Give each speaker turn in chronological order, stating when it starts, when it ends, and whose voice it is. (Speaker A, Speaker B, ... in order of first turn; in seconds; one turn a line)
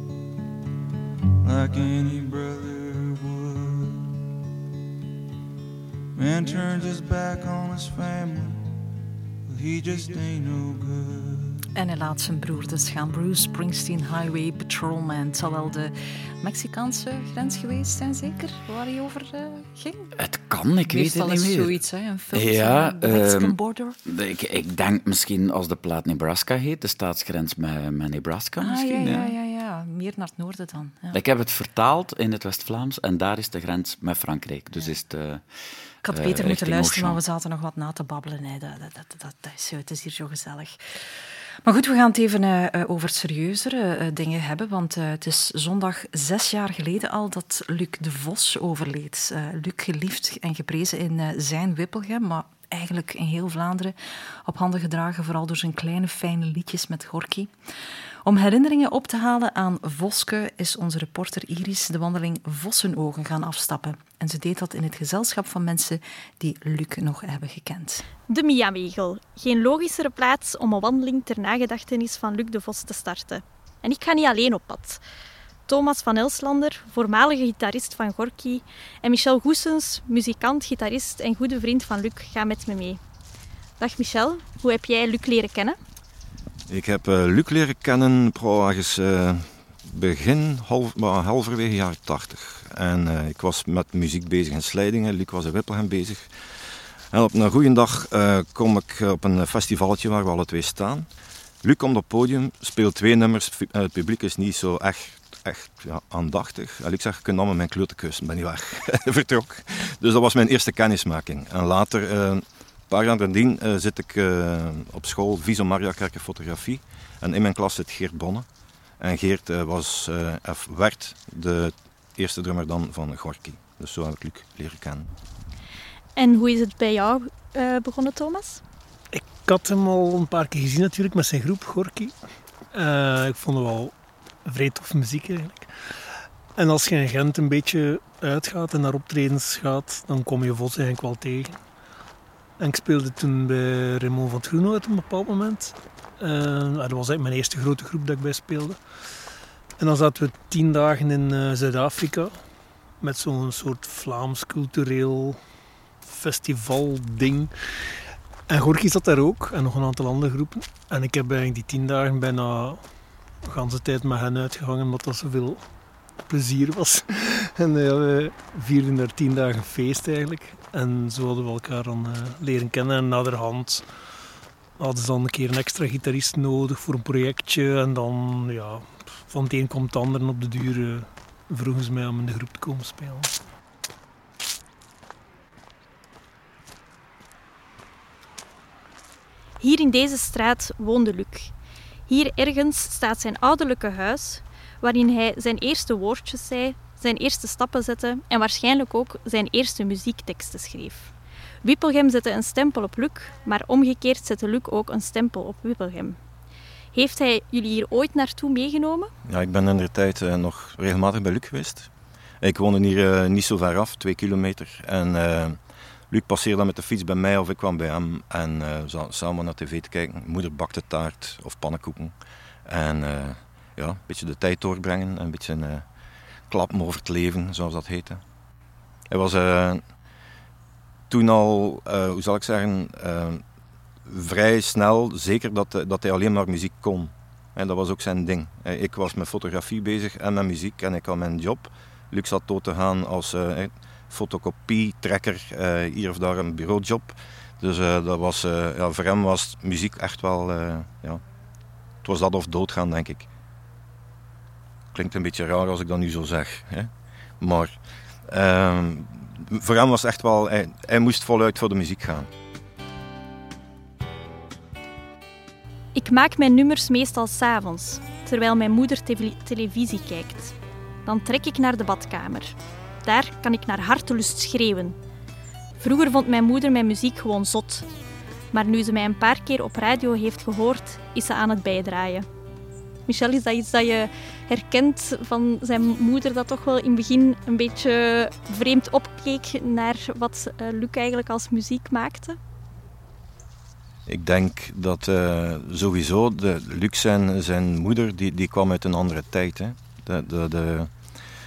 Speaker A: 1.4-4.1
Speaker A: 6.2-8.6
Speaker A: 9.5-11.6
Speaker B: 11.8-20.1
Speaker C: 20.2-21.7
Speaker B: 20.9-23.9
Speaker C: 22.3-29.3
Speaker B: 28.6-31.2
Speaker C: 31.1-35.4
Speaker B: 36.0-40.8
Speaker C: 36.1-37.2
Speaker B: 41.6-57.5
Speaker B: 58.2-68.0
Speaker D: 68.3-75.0
Speaker D: 75.7-83.0
Speaker D: 83.8-85.8
Speaker E: 86.7-96.3
Speaker E: 97.1-101.1
Speaker E: 101.6-118.5
Speaker E: 119.0-125.1
Speaker D: 126.2-128.6
Speaker F: 129.1-132.2
Speaker F: 132.7-141.6
Speaker F: 142.6-148.8
Speaker F: 149.8-152.4
Speaker F: 153.0-155.4
Speaker F: 156.0-157.5
Speaker F: 158.5-165.7
Speaker F: 166.2-173.9
Speaker F: 174.8-183.3
Speaker D: 189.6-191.5
Speaker D: 192.1-201.1
Speaker D: 201.6-206.2
Speaker D: 206.9-209.1
Speaker E: 209.3-211.9
Speaker E: 212.4-222.1
Speaker E: 222.7-225.8
Speaker E: 226.5-228.2
Speaker E: 229.1-229.8
Speaker E: 231.1-233.4
Speaker E: 234.1-251.2
Speaker E: 252.0-253.3
Speaker E: 254.9-257.7
Speaker E: 258.3-262.3
Speaker D: 265.9-270.5
Speaker D: 271.0-274.9
Speaker D: 275.8-277.9
Speaker D: 278.5-282.3
Speaker D: 283.1-292.4
Speaker E: 294.1-300.9